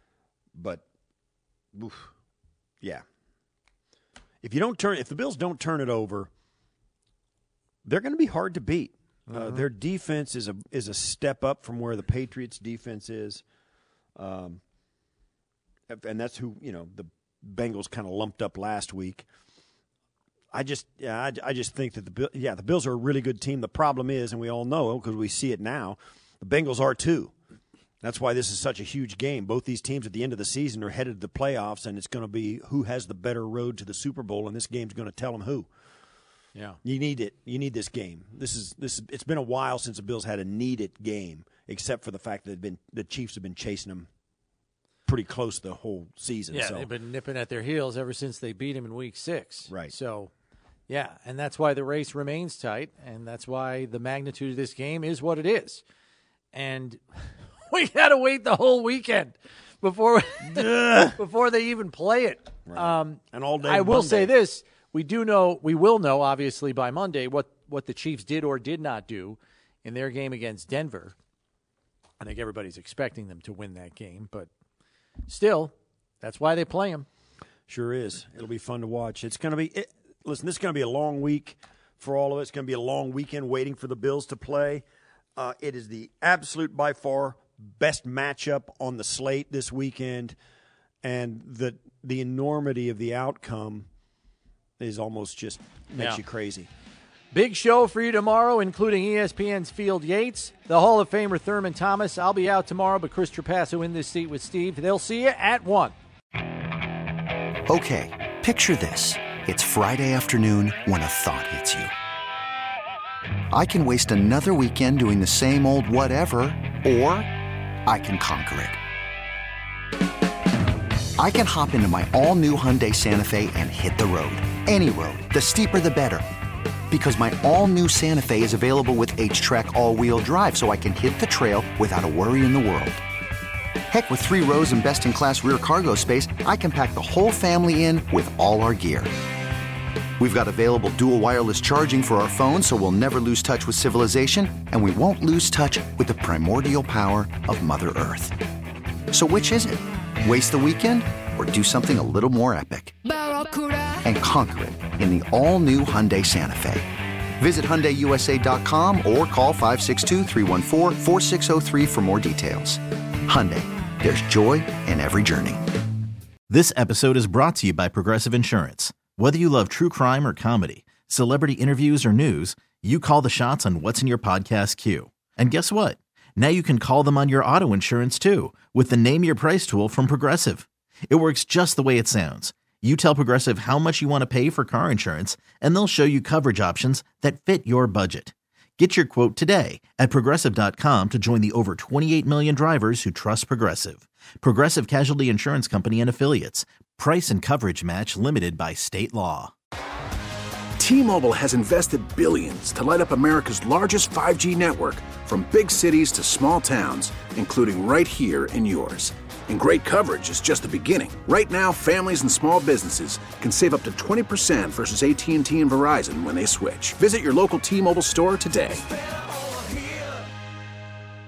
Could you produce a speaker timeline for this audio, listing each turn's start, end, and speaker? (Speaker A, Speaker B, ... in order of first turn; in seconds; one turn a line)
Speaker A: 0.5-0.8
Speaker A: 1.7-2.1
Speaker A: 4.4-6.3
Speaker A: 7.8-13.4
Speaker B: 9.3-9.7
Speaker A: 14.2-14.6
Speaker A: 15.9-19.3
Speaker A: 20.5-27.3
Speaker A: 28.0-35.7
Speaker A: 36.8-44.1
Speaker A: 45.0-46.9
Speaker B: 46.5-50.3
Speaker A: 49.7-49.9
Speaker B: 50.9-55.8
Speaker B: 56.5-57.0
Speaker B: 57.6-71.2
Speaker A: 62.7-64.3
Speaker B: 72.2-74.5
Speaker B: 75.3-77.0
Speaker A: 77.7-84.8
Speaker A: 85.3-90.3
Speaker A: 91.0-93.9
Speaker A: 94.8-96.7
Speaker B: 97.3-105.9
Speaker C: 107.7-111.9
Speaker C: 113.5-117.2
Speaker C: 117.9-118.7
Speaker C: 121.2-126.2
Speaker C: 126.9-132.9
Speaker C: 133.9-139.1
Speaker C: 140.2-148.3
Speaker C: 149.1-152.8
Speaker C: 154.1-156.8
Speaker C: 157.4-162.8
Speaker C: 163.3-165.5
Speaker D: 166.5-199.5
Speaker E: 200.8-218.8